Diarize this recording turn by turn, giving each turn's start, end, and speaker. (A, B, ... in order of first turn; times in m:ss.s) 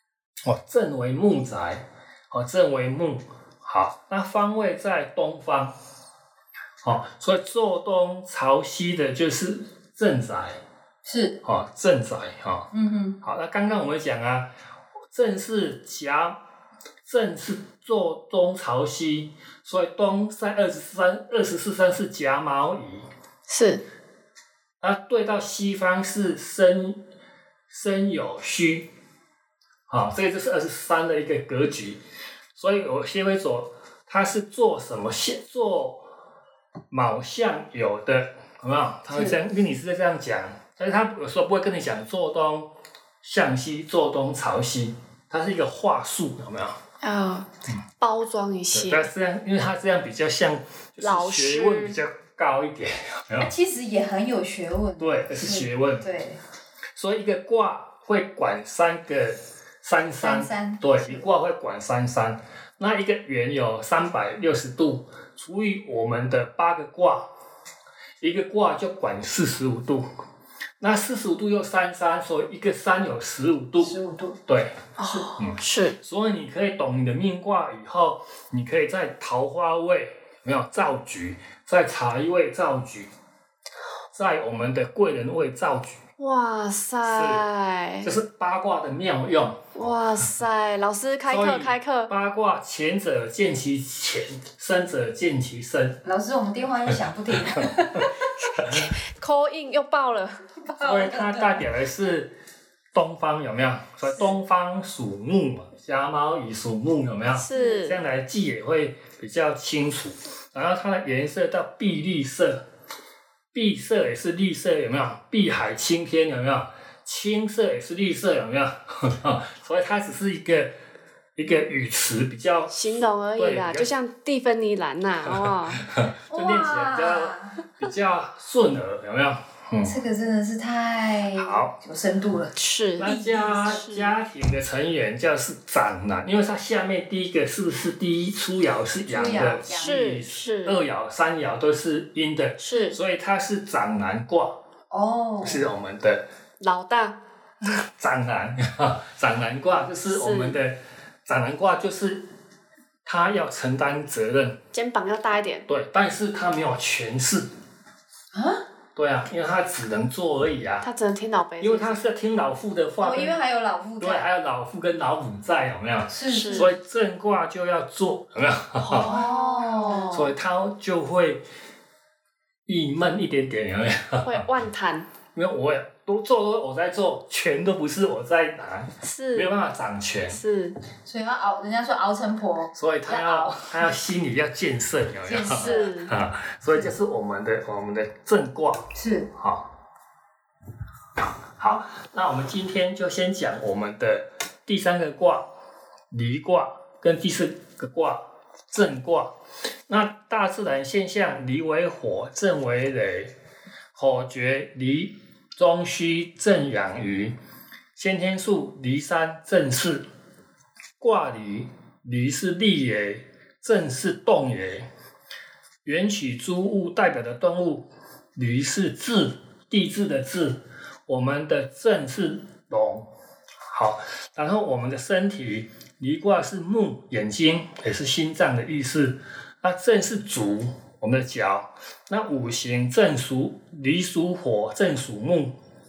0:00.4-0:05.7 A
0:06.8-0:10.6 A
0:11.0-0:11.4 B
0:11.4-0:12.7 A
0:12.7-0:13.2 B
0:13.2-0:14.5 A
0:15.1-0:16.4 A
0:17.0-0:23.1 A
0:23.5-0:23.8 C
0:24.8-0:27.0 A
0:27.7-0:28.9 A
0:29.9-0:32.0 A
0:32.6-0:36.1 A
0:36.9-0:46.8 A
0:47.0-0:49.0 C
0:48.7-0:53.5 A
0:51.0-0:52.0 C
0:53.4-0:56.4 B
0:55.0-0:56.1 A
0:57.0-1:07.3 A
1:00.2-1:01.3 B
1:08.2-1:10.1 A
1:10.8-1:23.1 A
1:13.8-1:14.4 B
1:15.0-1:16.0 C
1:24.1-1:26.0 A
1:26.2-1:28.1 C
1:27.0-1:27.4 A
1:28.0-1:29.9 A
1:29.7-1:32.1 C
1:31.3-1:36.0 A
1:36.0-1:38.3 B
1:37.4-1:38.9 A
1:38.6-1:40.4 C
1:40.7-1:41.6 B
1:40.8-1:42.3 A
1:42.9-1:52.6 A
1:47.4-1:48.0 C
1:47.5-1:47.9 B
1:53.5-2:00.7 A
2:01.4-2:03.9 A
2:02.7-2:05.8 C
2:05.3-2:10.0 A
2:06.3-2:07.6 B
2:09.8-2:13.9 B
2:11.3-2:11.7 A
2:12.6-2:13.1 C
2:13.0-2:24.6 A
2:13.7-2:14.1 C
2:19.1-2:20.0 B
2:19.6-2:20.8 C
2:22.6-2:23.0 C
2:24.9-2:25.7 B
2:25.4-2:26.2 A
2:26.6-2:27.2 C
2:28.0-2:32.3 A
2:30.1-2:30.6 C
2:33.0-2:34.6 A
2:34.7-2:35.6 C
2:35.7-2:37.5 A
2:38.3-2:38.6 B
2:39.0-2:40.9 A
2:40.8-2:42.0 C
2:41.6-2:43.4 A
2:43.0-2:44.3 B
2:44.0-2:49.2 A
2:46.1-2:46.7 B
2:46.3-2:46.7 C
2:48.8-2:50.3 C
2:48.9-2:50.2 B
2:50.1-2:51.4 A
2:52.7-2:54.5 A
2:54.2-2:55.1 C
2:55.3-3:00.4 A
2:59.0-2:59.6 C
3:00.3-3:00.8 C
3:01.0-3:03.9 B
3:02.7-3:09.7 A
3:05.2-3:05.9 B
3:05.5-3:06.1 C
3:08.9-3:09.3 B
3:11.6-3:15.5 A
3:16.1-3:19.3 A
3:19.9-3:23.3 A
3:23.9-3:27.3 A
3:28.0-3:30.1 A
3:31.0-3:34.9 A
3:35.8-3:43.1 A
3:43.7-3:55.6 A